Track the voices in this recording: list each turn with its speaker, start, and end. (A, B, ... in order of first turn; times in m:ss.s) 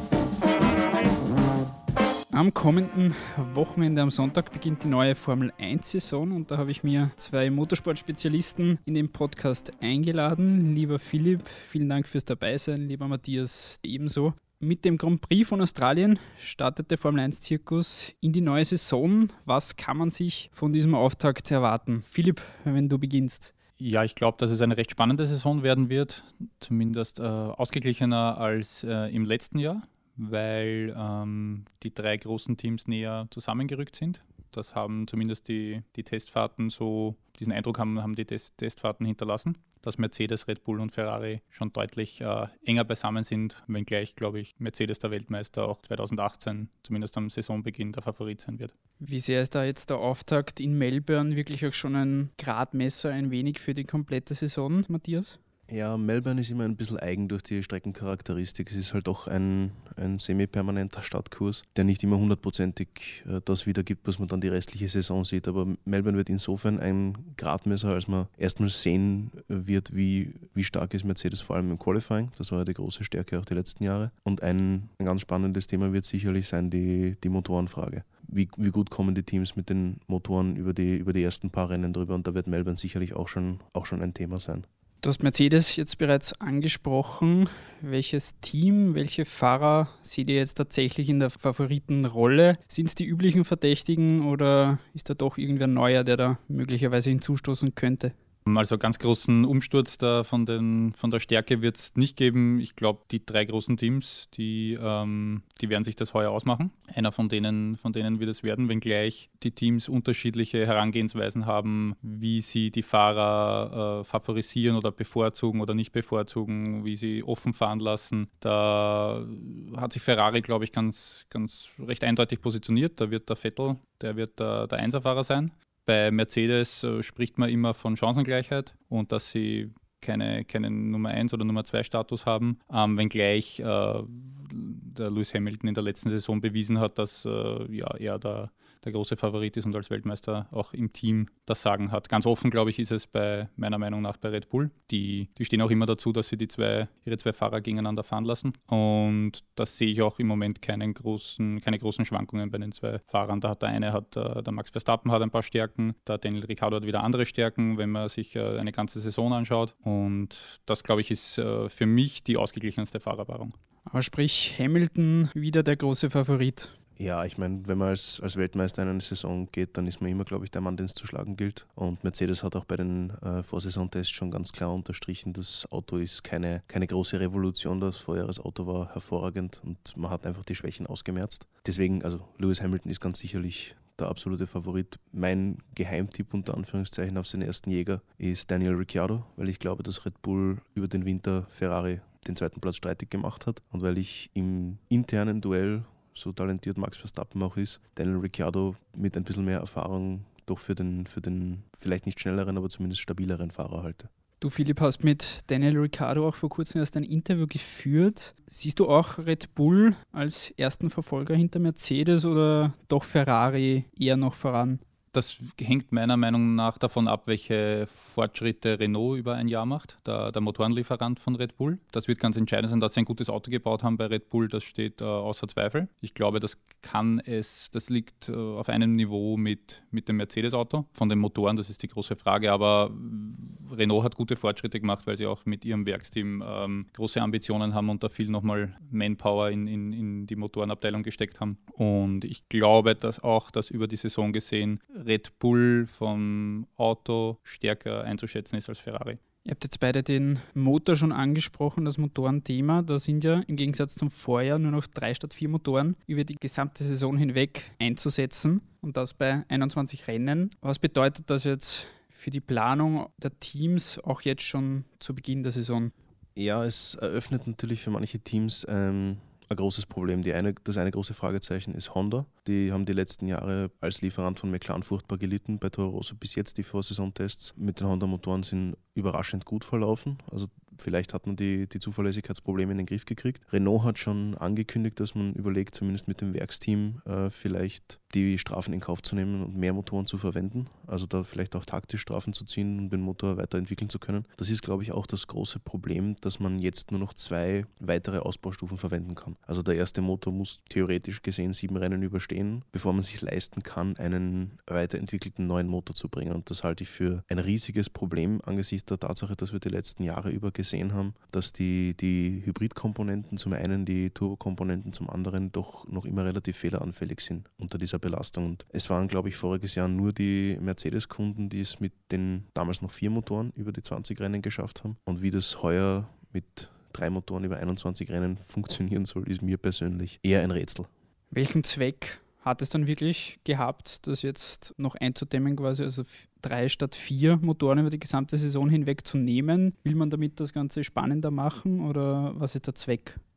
0:02.3-0:23.5 A
0:23.8-0:48.7 B
0:49.0-0:55.4 A
0:55.7-1:24.6 C
1:25.0-1:38.1 A
1:38.4-2:43.5 B
2:43.9-2:46.7 A
2:47.0-3:24.1 C
3:24.4-3:34.8 A
3:35.1-4:09.2 B
4:09.4-4:25.9 A
4:26.4-5:30.9 C
5:31.3-5:43.2 A